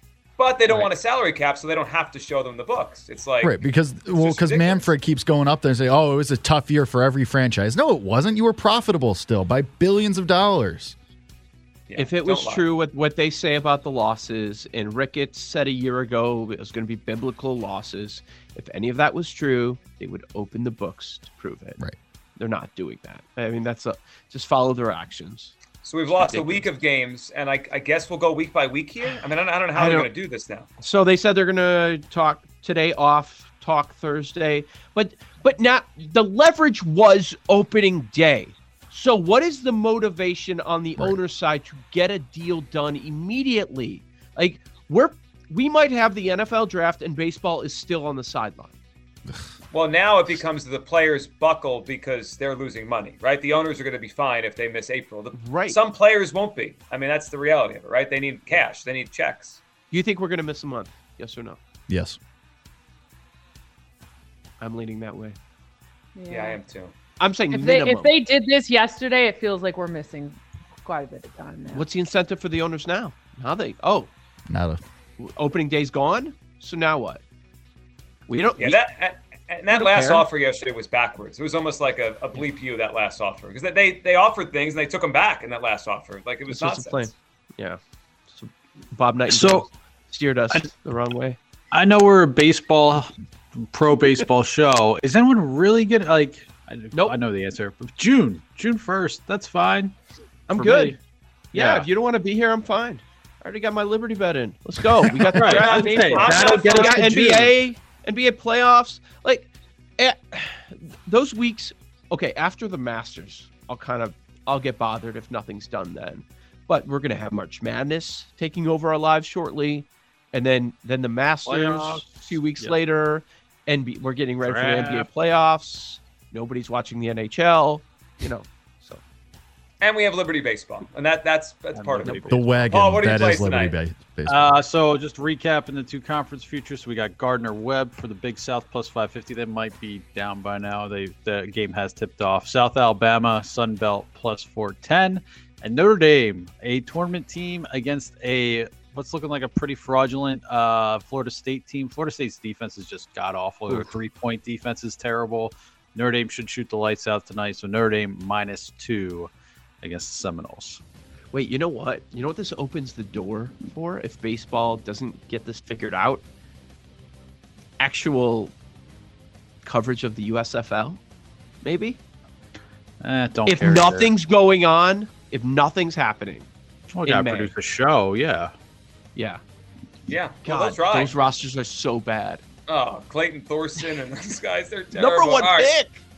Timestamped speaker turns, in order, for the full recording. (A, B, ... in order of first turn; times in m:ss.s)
0:00.4-0:03.6 A
0:03.4-0:11.0 B
0:04.1-0:04.9 A
0:11.9-0:12.7 A
0:12.0-0:21.8 C
0:22.4-0:25.6 C
0:25.8-0:30.7 A
0:26.1-0:26.7 C
0:29.8-0:30.1 C
0:30.8-0:48.7 C
0:49.7-0:59.6 A
0:55.4-0:55.8 C
0:59.9-1:01.6 C
1:01.9-1:02.2 B
1:04.6-1:05.4 C
1:06.2-1:06.6 D
1:06.3-1:06.9 A
1:07.2-1:08.1 C
1:07.5-1:11.9 D
1:11.7-1:14.1 C
1:14.5-1:14.8 B
1:15.2-1:17.2 C
1:18.3-1:18.8 C
1:18.6-1:27.1 A
1:19.7-1:20.3 C
1:26.5-1:27.8 C
1:28.3-1:31.4 C
1:29.3-1:29.6 E
1:31.7-1:33.1 E
1:33.7-1:40.0 E
1:40.5-1:41.0 C
1:40.5-1:41.0 E
1:41.5-1:41.9 E
1:41.5-2:09.0 C
1:45.1-1:47.6 E
1:45.5-1:47.1 A
2:01.5-2:02.8 E
2:04.4-2:05.1 E
2:09.8-2:13.8 A
2:11.8-2:12.4 E
2:12.0-2:12.4 C
2:12.3-2:14.6 B
2:14.2-2:39.3 E
2:33.7-2:33.9 C
2:39.8-2:40.8 E
2:41.3-2:46.2 C
2:47.8-2:48.5 C
2:49.6-2:51.0 C
2:51.6-2:52.0 C
2:53.0-2:54.1 E
2:53.5-2:56.5 C
2:56.9-2:58.5 E
2:57.0-2:57.5 C
3:00.1-3:01.2 A
3:00.4-3:02.4 C
3:02.7-3:05.7 A
3:04.9-3:06.0 C